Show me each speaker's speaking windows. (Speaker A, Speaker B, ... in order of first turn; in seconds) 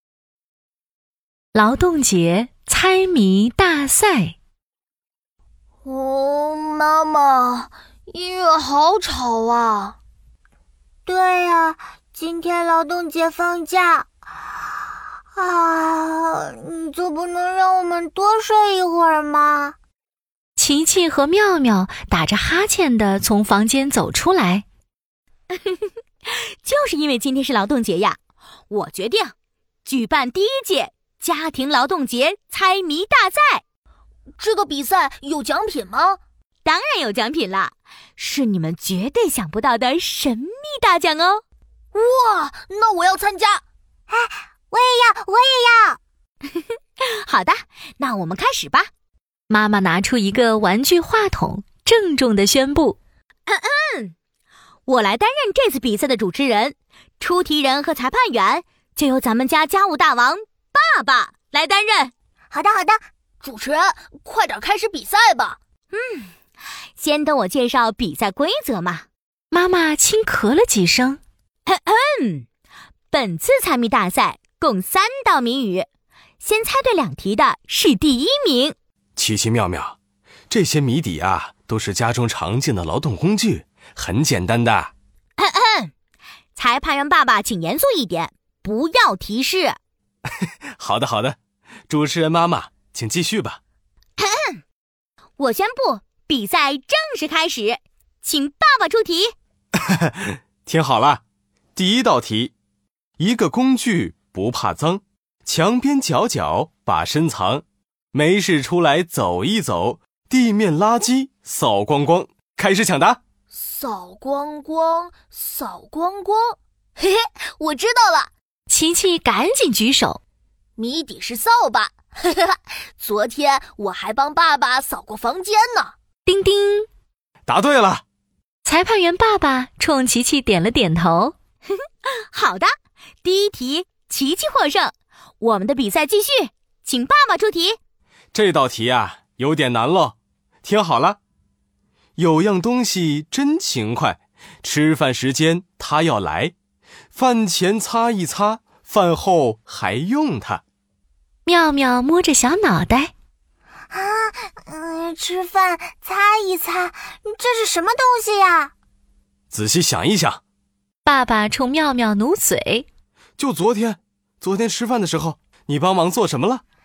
Speaker A: 1.5-4.3, 20.6-24.6, 49.5-53.0, 69.5-71.2, 118.7-120.2, 126.2-126.9, 128.6-131.3, 151.4-153.1, 161.0-162.8
Speaker B: 5.8-10.0, 34.4-36.2, 41.9-43.6, 63.4-65.6, 113.5-118.3, 120.8-125.9
Speaker C: 11.1-14.1, 15.3-19.8, 44.1-46.0, 62.5-63.0, 153.9-158.7
Speaker D: 25.5-28.2, 28.7-29.3, 29.8-33.6, 36.6-41.4, 47.0-48.9, 53.5-54.1, 54.9-62.1, 65.9-66.3, 67.0-69.0, 71.7-72.5, 73.1-75.9, 76.4-78.7, 85.4-85.9, 86.5-89.8, 94.2-94.6, 95.4-99.3, 132.3-132.7, 133.2-137.8
Speaker E: 79.2-80.0, 80.5-84.9, 90.8-91.4, 91.9-93.6, 99.8-101.2, 101.8-102.5, 103.2-113.2, 127.5-128.0, 138.3-141.2, 142.2-146.5, 147.1-150.6, 159.5-160.4, 163.4-166.6